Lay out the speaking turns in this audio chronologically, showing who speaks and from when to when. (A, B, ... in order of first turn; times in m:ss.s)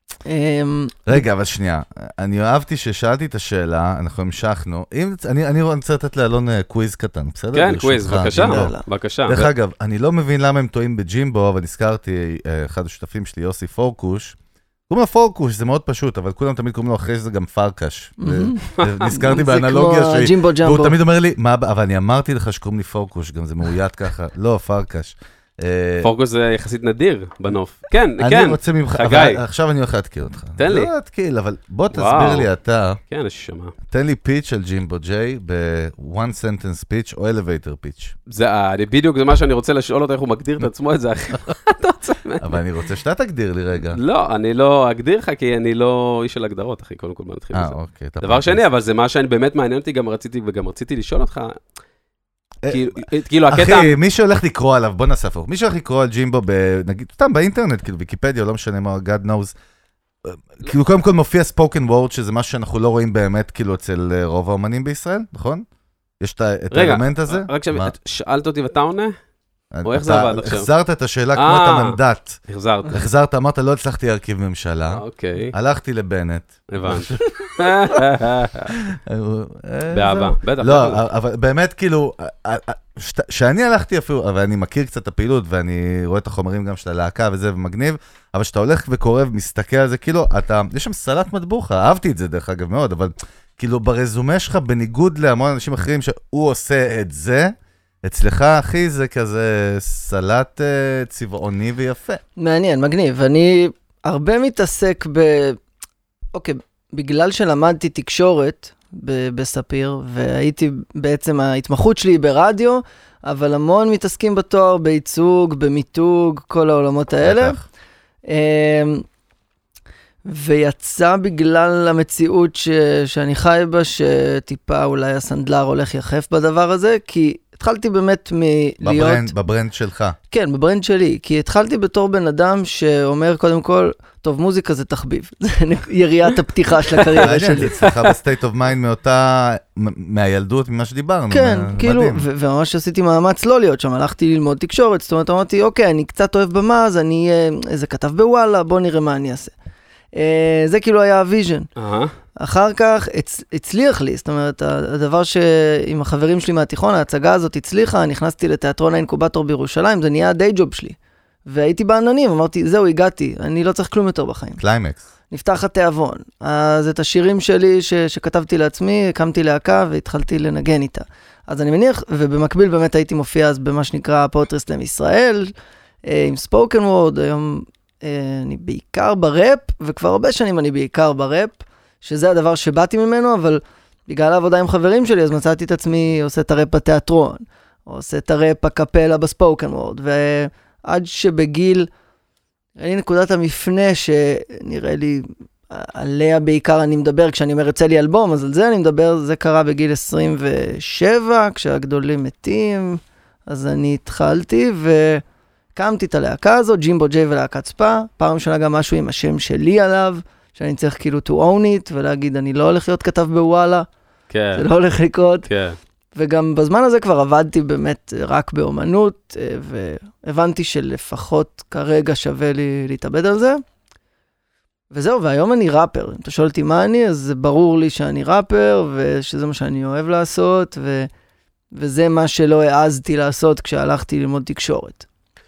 0:00.2-0:01.1 A
0:01.0-0:08.7 B
0:07.5-0:09.5 C
0:08.2-0:08.8 A
0:09.3-0:14.4 B
0:14.9-0:26.1 B
0:18.2-0:21.0 A
0:26.0-0:29.4 C
0:28.2-0:33.0 B
0:30.6-0:30.9 C
0:31.9-0:32.5 C
0:33.1-0:33.7 C
0:33.9-0:38.1 B
0:38.3-0:42.6 C
0:42.4-0:44.0 B
0:43.9-0:51.6 C
0:47.5-0:48.6 B
0:52.6-0:52.9 B
0:52.7-0:54.0 C
0:53.5-0:59.5 B
1:00.2-1:05.6 B
1:06.2-1:07.9 B
1:06.7-1:09.1 C
1:09.7-1:17.5 B
1:09.8-1:10.7 C
1:11.3-1:13.1 C
1:14.9-1:15.5 C
1:16.7-1:18.7 C
1:18.7-1:37.5 B
1:19.9-1:21.0 C
1:38.0-1:42.2 B
1:42.4-1:45.6 A
1:46.3-1:57.6 A
1:57.2-1:57.6 B
1:58.3-1:59.0 A
2:00.2-2:09.3 A
2:08.8-2:10.2 B
2:10.3-2:17.8 A
2:17.1-2:22.2 B
2:21.3-2:29.5 A
2:30.1-2:31.7 A
2:31.8-2:32.1 C
2:32.4-2:44.6 A
2:44.6-2:45.0 B
2:45.3-2:55.5 A
2:56.0-3:11.9 A
3:12.8-3:25.2 A
3:25.7-3:33.8 A
3:34.3-3:34.6 C
3:34.6-3:35.5 A
3:35.5-3:35.8 C
3:36.2-3:43.6 A
3:44.9-3:51.1 A
3:51.7-3:55.0 A